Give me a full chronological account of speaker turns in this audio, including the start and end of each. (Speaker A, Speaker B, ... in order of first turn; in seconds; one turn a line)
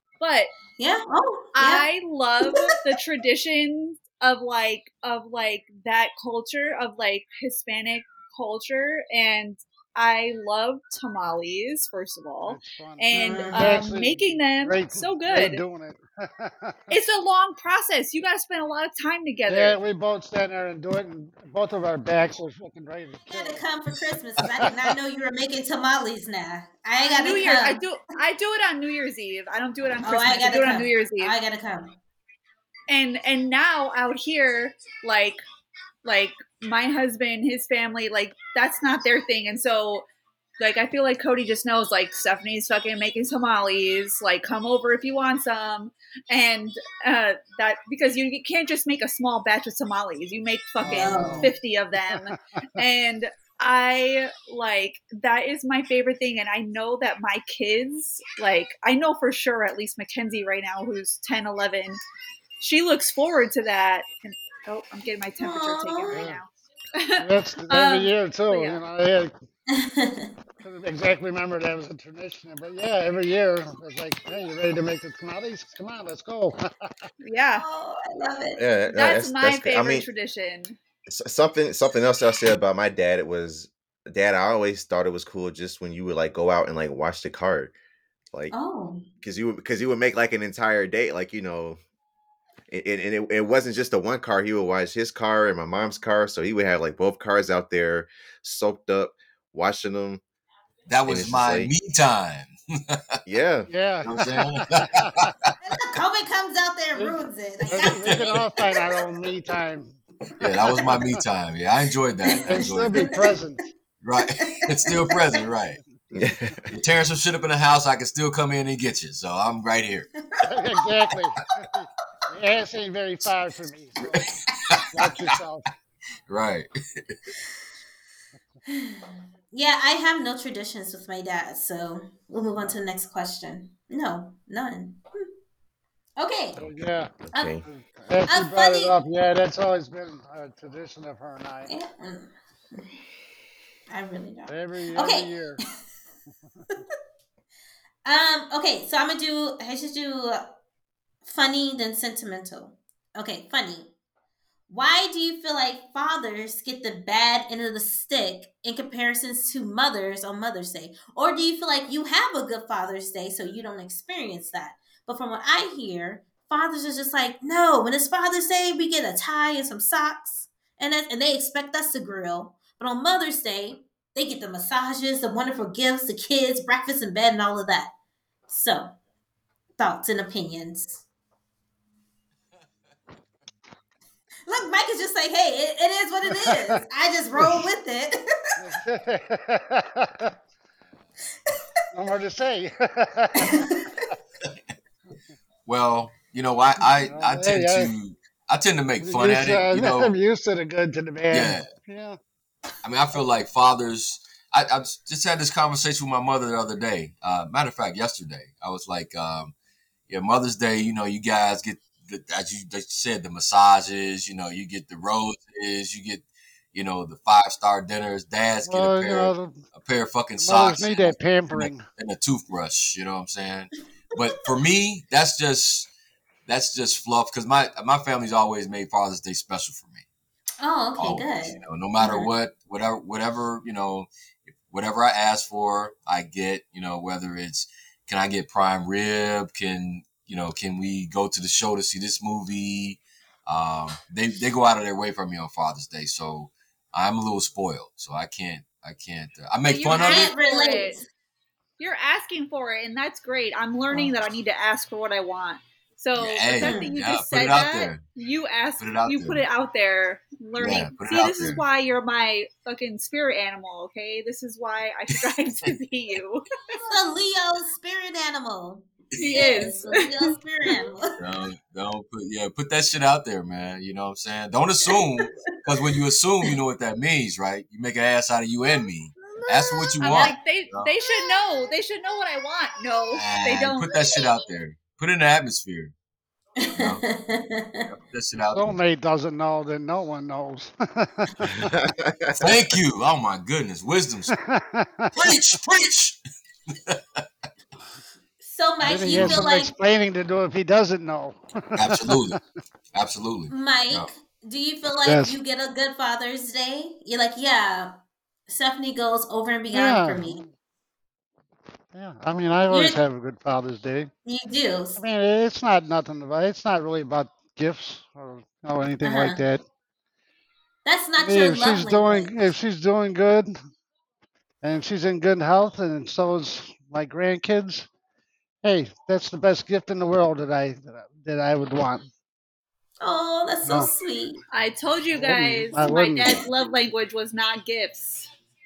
Speaker A: 0.2-0.5
Speaker B: 0.8-1.9
Speaker A: 1.6-15.6
Speaker B: 2.4-2.8
Speaker C: 12.5-16.9
Speaker B: 13.1-13.9
Speaker A: 16.9-19.8
Speaker C: 19.5-23.6
Speaker B: 23.3-27.8
Speaker C: 24.6-24.9
Speaker A: 27.1-31.3
Speaker B: 30.0-32.0
Speaker A: 32.9-35.4
Speaker A: 36.0-40.0
Speaker A: 40.6-62.0
Speaker C: 50.8-51.6
Speaker B: 50.9-51.5
Speaker C: 52.1-52.6
Speaker A: 62.6-68.8
Speaker B: 65.4-66.3
Speaker C: 66.1-66.4
Speaker C: 67.2-69.3
Speaker B: 69.7-70.3
Speaker C: 70.6-76.9
Speaker A: 77.2-77.7
Speaker B: 77.5-78.6
Speaker D: 78.6-80.1
Speaker A: 78.9-80.8
Speaker D: 81.1-87.7
Speaker B: 88.5-89.1
Speaker D: 89.2-91.8
Speaker D: 92.7-100.2
Speaker E: 100.9-103.1
Speaker D: 101.1-101.7
Speaker D: 103.3-103.7
Speaker C: 103.7-105.3
Speaker E: 104.0-105.5
Speaker B: 105.6-108.2
Speaker C: 107.0-111.2
Speaker E: 107.9-108.4
Speaker E: 110.4-113.2
Speaker B: 112.3-113.1
Speaker C: 112.4-113.7
Speaker E: 114.0-115.8
Speaker B: 114.4-115.2
Speaker D: 116.1-116.7
Speaker E: 116.7-120.1
Speaker C: 120.4-124.3
Speaker E: 124.0-125.3
Speaker C: 124.9-125.7
Speaker E: 126.3-127.1
Speaker B: 128.7-135.3
Speaker B: 136.2-136.7
Speaker C: 136.6-141.7
Speaker D: 137.3-137.7
Speaker B: 138.3-138.9
Speaker B: 141.7-142.9
Speaker B: 143.9-145.3
Speaker C: 144.5-145.6
Speaker B: 148.1-150.5
Speaker B: 151.2-153.9
Speaker B: 154.7-177.9
Speaker B: 178.5-178.9
Speaker B: 179.8-181.0
Speaker B: 184.5-188.2
Speaker C: 187.4-187.7
Speaker C: 188.6-190.3
Speaker C: 191.9-193.8
Speaker E: 195.7-200.1
Speaker C: 197.1-197.9
Speaker C: 199.0-202.2
Speaker E: 201.3-201.7
Speaker E: 202.8-209.5
Speaker E: 210.1-225.9
Speaker C: 218.7-219.6
Speaker C: 220.4-221.8
Speaker E: 226.5-230.0
Speaker B: 230.6-232.3
Speaker E: 231.0-250.3
Speaker A: 249.7-251.0
Speaker B: 249.9-251.1
Speaker A: 251.8-266.5
Speaker E: 256.2-258.0
Speaker B: 256.6-256.9
Speaker E: 258.8-259.4
Speaker E: 260.6-261.6
Speaker B: 260.6-260.9
Speaker B: 266.8-271.2
Speaker E: 269.2-269.7
Speaker A: 269.2-270.3
Speaker E: 271.2-280.9
Speaker B: 274.9-275.5
Speaker B: 279.2-280.4
Speaker A: 280.0-284.2
Speaker E: 283.1-285.9
Speaker B: 286.6-287.9
Speaker E: 286.8-287.1
Speaker E: 287.9-288.8
Speaker C: 288.5-291.7
Speaker D: 291.6-292.4
Speaker E: 292.4-294.3
Speaker C: 294.3-295.4
Speaker E: 295.1-296.2
Speaker E: 296.9-297.2
Speaker B: 298.4-299.7
Speaker C: 298.8-302.4
Speaker E: 299.1-299.5
Speaker E: 301.8-302.4
Speaker E: 302.9-304.1
Speaker B: 303.5-307.9
Speaker C: 305.0-305.4
Speaker B: 308.5-310.4
Speaker C: 309.7-310.5
Speaker C: 311.9-314.1
Speaker B: 312.7-313.0
Speaker B: 314.3-315.0
Speaker C: 315.0-319.6
Speaker B: 319.0-319.4
Speaker B: 320.9-322.4
Speaker C: 321.2-323.6
Speaker C: 324.6-327.9
Speaker C: 328.6-332.1
Speaker B: 333.0-334.4
Speaker A: 334.5-338.3
Speaker C: 335.1-336.4